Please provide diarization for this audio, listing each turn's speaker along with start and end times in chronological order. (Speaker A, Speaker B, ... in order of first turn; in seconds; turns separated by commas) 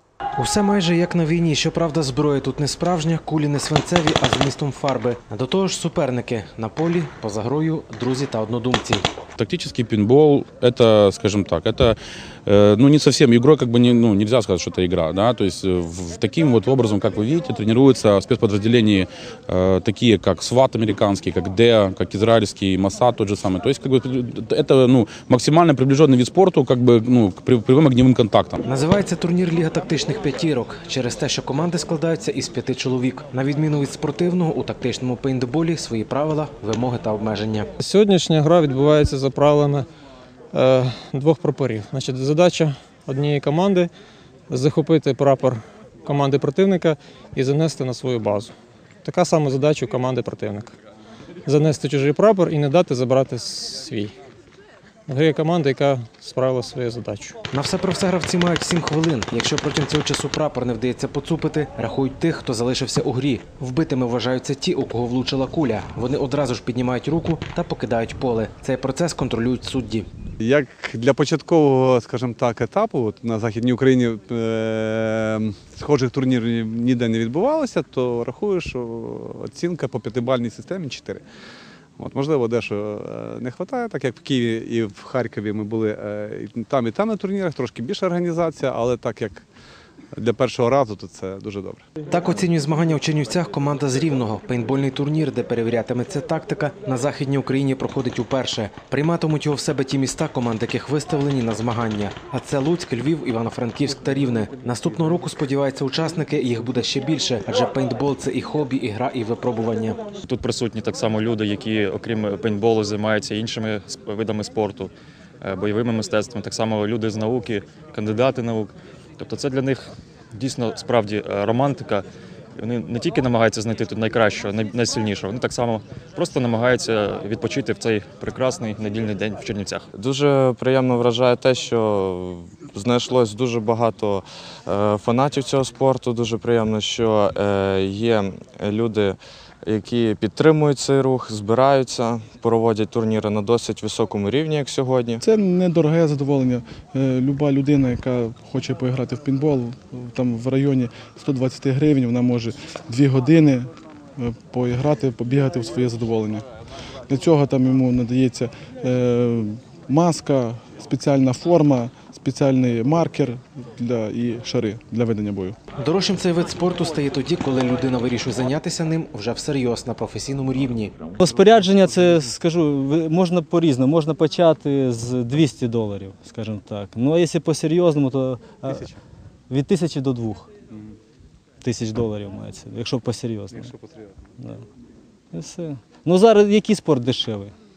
Speaker A: 0.4-9.1, Speaker B: 9.4-28.6, Speaker A: 28.6-37.7, Speaker C: 37.8-39.9, Speaker C: 40.5-43.9, Speaker C: 44.5-50.8, Speaker C: 51.5-54.1, Speaker C: 55.1-57.4, Speaker A: 57.5-70.1, Speaker D: 70.4-81.2, Speaker D: 82.0-89.5, Speaker D: 90.1-91.8, Speaker A: 92.1-110.0, Speaker E: 110.2-122.0, Speaker E: 122.6-129.9, Speaker F: 129.9-145.2, Speaker G: 145.2-156.5, Speaker G: 157.1-165.6, Speaker A: 165.8-170.9, Speaker H: 171.2-178.9, Speaker H: 179.5-180.5, Speaker H: 181.6-183.7, Speaker H: 184.4-184.6, Speaker H: 185.3-187.5